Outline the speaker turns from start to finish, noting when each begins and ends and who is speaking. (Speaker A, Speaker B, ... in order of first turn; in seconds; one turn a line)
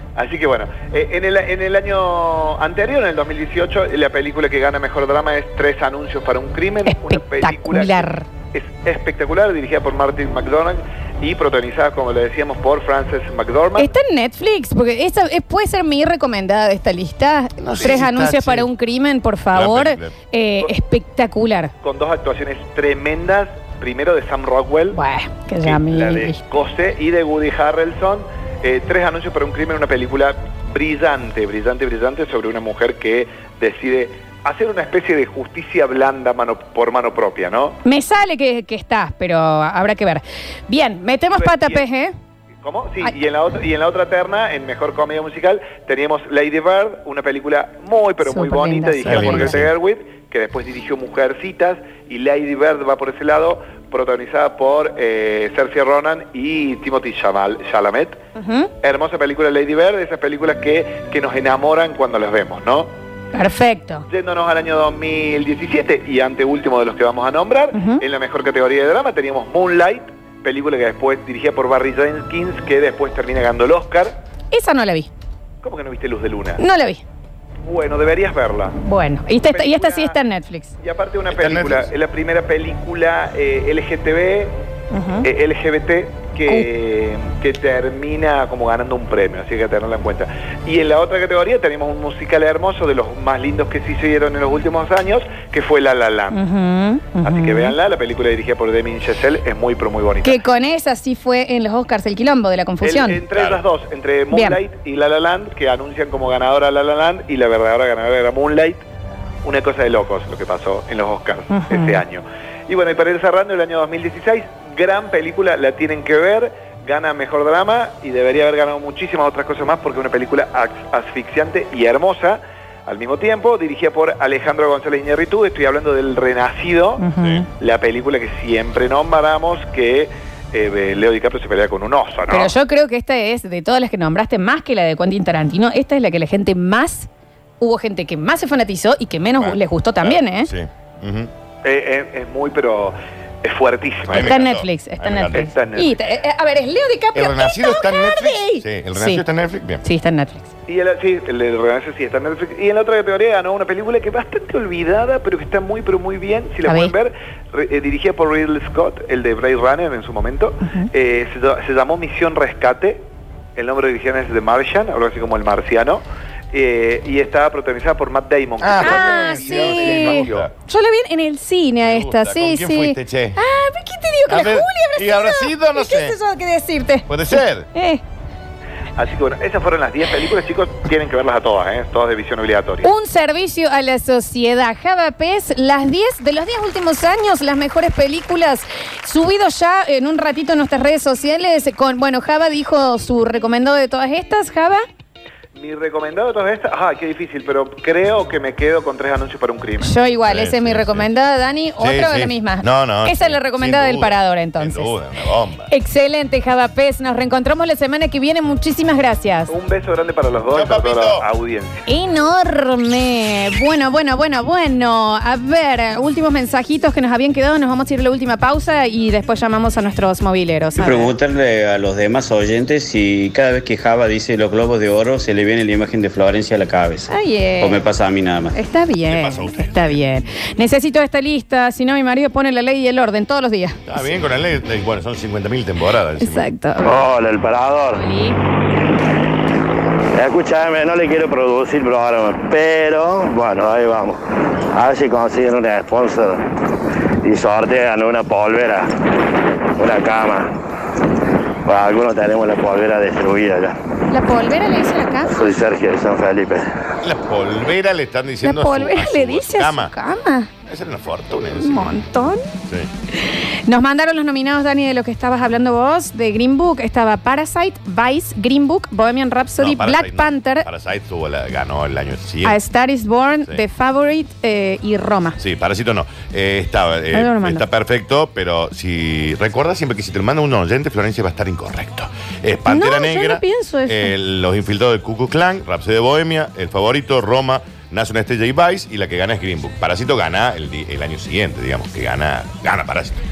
Speaker A: 0.2-13.9
Speaker B: 6.8-8.2
Speaker B: 13.8-21.7
Speaker C: 17.6-18.7
Speaker C: 19.5-20.2
Speaker A: 21.8-25.0
Speaker B: 24.9-26.4
Speaker A: 25.6-37.8
Speaker B: 37.9-42.1
Speaker A: 41.4-41.9
Speaker A: 42.6-58.2
Speaker B: 48.2-49.6
Speaker C: 49.0-49.7
Speaker B: 58.4-58.7
Speaker A: 58.8-62.9
Speaker B: 63.3-64.1
Speaker A: 64.1-74.2
Speaker B: 67.7-68.0
Speaker B: 74.5-75.1
Speaker A: 75.6-76.6
Speaker B: 76.6-77.0
Speaker A: 77.7-78.8
Speaker B: 78.8-80.7
Speaker A: 79.4-80.2
Speaker A: 80.8-84.6
Speaker C: 81.3-81.9
Speaker B: 84.9-85.3
Speaker A: 85.2-96.4
Speaker B: 96.3-97.8
Speaker A: 97.2-100.4
Speaker B: 100.2-103.2
Speaker A: 102.8-108.8
Speaker C: 103.3-103.6
Speaker B: 104.3-104.6
Speaker A: 109.4-132.5
Speaker B: 111.5-112.0
Speaker B: 127.0-127.5
Speaker C: 127.2-127.5
Speaker B: 132.3-137.1
Speaker B: 137.6-140.5
Speaker C: 139.4-141.3
Speaker A: 141.6-144.4
Speaker C: 144.1-145.5
Speaker B: 144.2-149.2
Speaker A: 145.3-146.0
Speaker C: 147.2-149.8
Speaker B: 149.8-150.5
Speaker A: 150.7-163.0
Speaker B: 156.7-156.9
Speaker A: 163.6-170.5
Speaker C: 168.6-170.5
Speaker B: 168.8-178.0
Speaker C: 171.8-173.4
Speaker C: 174.3-176.2
Speaker C: 177.1-177.7
Speaker A: 179.0-182.9
Speaker B: 182.8-194.8
Speaker A: 195.6-199.9
Speaker B: 199.8-204.9
Speaker C: 200.3-201.1
Speaker C: 201.8-205.7
Speaker B: 205.7-209.5
Speaker A: 209.5-211.8
Speaker C: 210.5-211.3
Speaker B: 211.9-221.1
Speaker D: 220.8-228.6
Speaker B: 227.1-227.8
Speaker B: 228.5-233.8
Speaker C: 229.1-230.0
Speaker C: 233.9-236.5
Speaker B: 236.2-237.0
Speaker E: 236.8-238.1
Speaker B: 237.9-238.4
Speaker E: 240.2-246.4
Speaker E: 247.2-248.9
Speaker E: 249.8-250.5
Speaker E: 251.7-253.8
Speaker B: 254.1-255.4
Speaker E: 255.3-256.7
Speaker C: 257.0-259.9
Speaker B: 258.4-260.5
Speaker C: 260.7-262.0
Speaker B: 261.6-262.4
Speaker B: 263.3-270.7
Speaker C: 269.6-272.6
Speaker B: 272.4-275.4
Speaker C: 275.4-293.2
Speaker B: 277.1-277.6
Speaker B: 282.7-284.1